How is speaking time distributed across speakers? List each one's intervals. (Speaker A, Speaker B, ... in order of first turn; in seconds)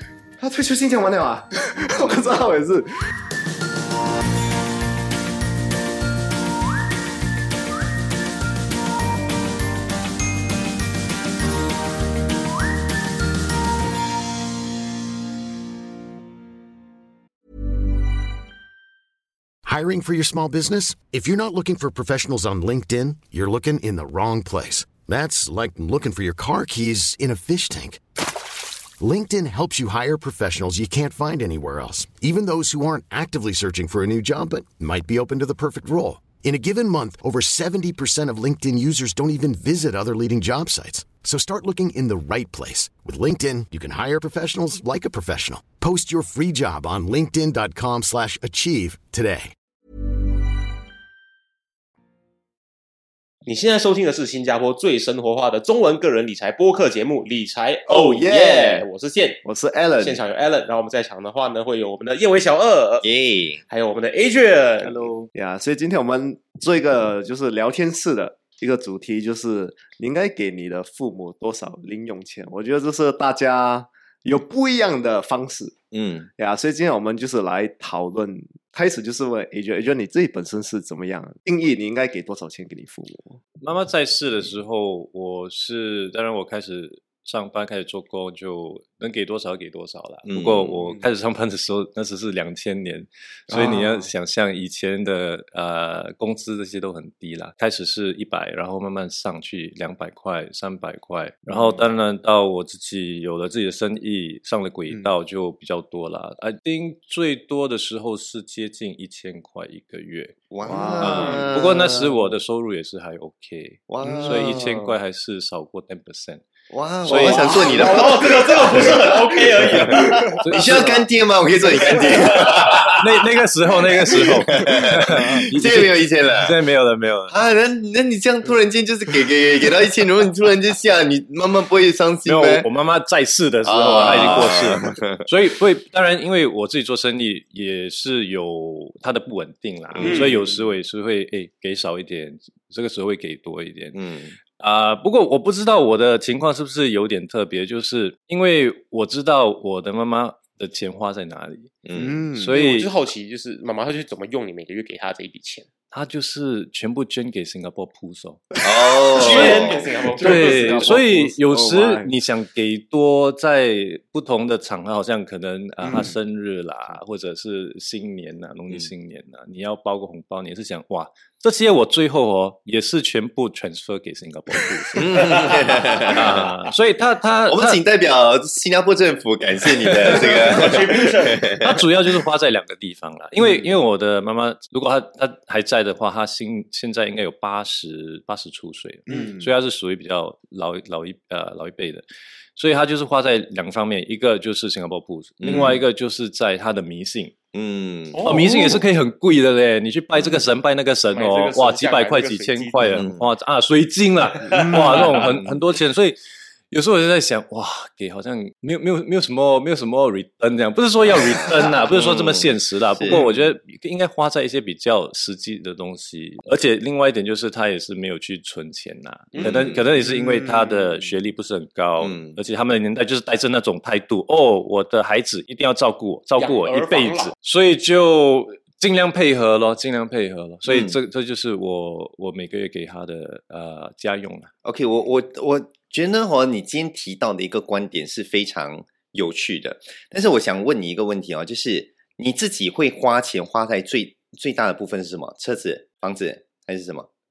Speaker A: 0.4-2.9, 57.9-58.9, 59.4-60.2, 65.3-75.7, 76.4-83.4, 93.5-94.1, 104.9-105.2, 110.7-111.5, 114.0-114.5, 117.3-117.7, 152.0-152.5, 159.4-162.1, 165.8-166.2, 189.1-189.5, 204.5-205.0, 219.9-221.2
Speaker B: 19.6-28.0, 29.0-49.5
Speaker C: 53.5-59.4, 60.0-63.1, 63.7-65.1, 117.7-120.4, 122.4-122.9, 140.0-140.3, 152.6-155.7, 159.2-160.9, 180.4-181.6, 198.1-198.8, 201.1-203.1, 204.5-205.1, 219.3-219.7, 226.4-227.3
Speaker D: 63.0-63.6, 64.9-65.3, 75.9-76.3, 90.2-90.9, 101.5-101.8, 110.5-112.2, 113.9-115.0, 116.7-123.1, 124.0-126.6, 127.3-132.7, 133.6-135.2, 139.9-140.7, 143.9-144.4, 151.8-152.2, 158.6-159.8, 175.0-176.6, 177.5-181.8, 195.4-195.8, 197.5-198.3, 202.8-203.3, 205.1-205.6, 211.0-213.5, 219.4-219.8, 222.0-222.4, 230.7-231.0, 234.6-247.1
Speaker E: 83.6-110.4, 111.0-116.4, 117.0-118.0, 120.4-121.0, 123.0-127.4, 132.3-144.0, 144.6-152.9, 155.9-158.5, 159.2-177.8, 179.9-180.8, 181.5-192.0, 192.6-197.3, 198.2-206.2, 206.7-234.5